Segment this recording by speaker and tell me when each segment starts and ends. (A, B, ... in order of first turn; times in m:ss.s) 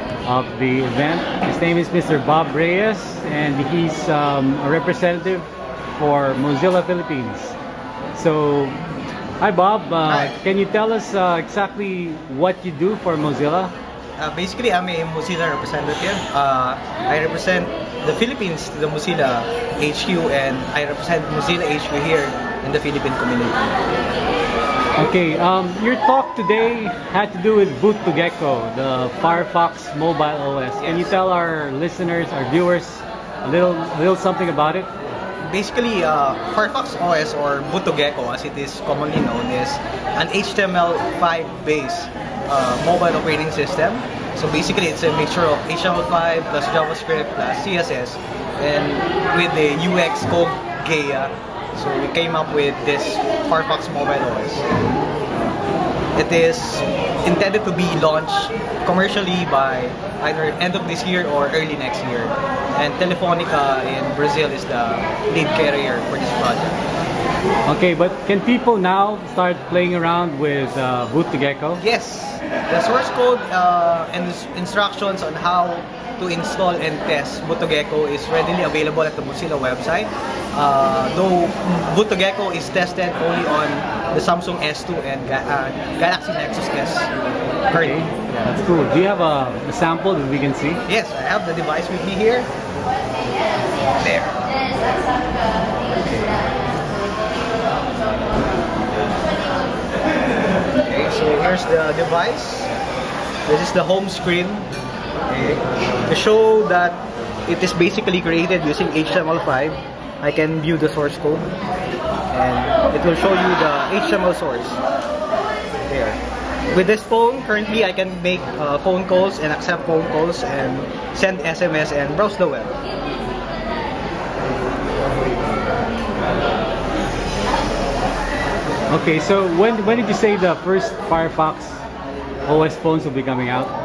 0:00.2-0:07.6 A
0:08.1-0:08.8 A
0:09.4-0:13.7 A
0:10.1-0:10.4 B
0:14.2-0:23.7 B
0:25.0-0:34.9 A
0:30.8-0:31.2 B
0:35.4-0:54.7 B
0:56.2-1:06.8 B
1:07.7-1:11.8 A
1:11.8-1:27.1 B
1:27.7-1:28.2 B
1:27.8-1:30.8 A
1:30.9-1:32.5 B
1:34.0-1:34.4 B
1:40.8-1:42.7 B
1:43.5-1:44.7 B
1:45.3-1:51.5 B
1:52.3-1:54.8 B
1:55.8-1:56.2 B
1:56.7-2:02.8 B
2:08.9-2:11.8 A
2:12.4-2:13.7 A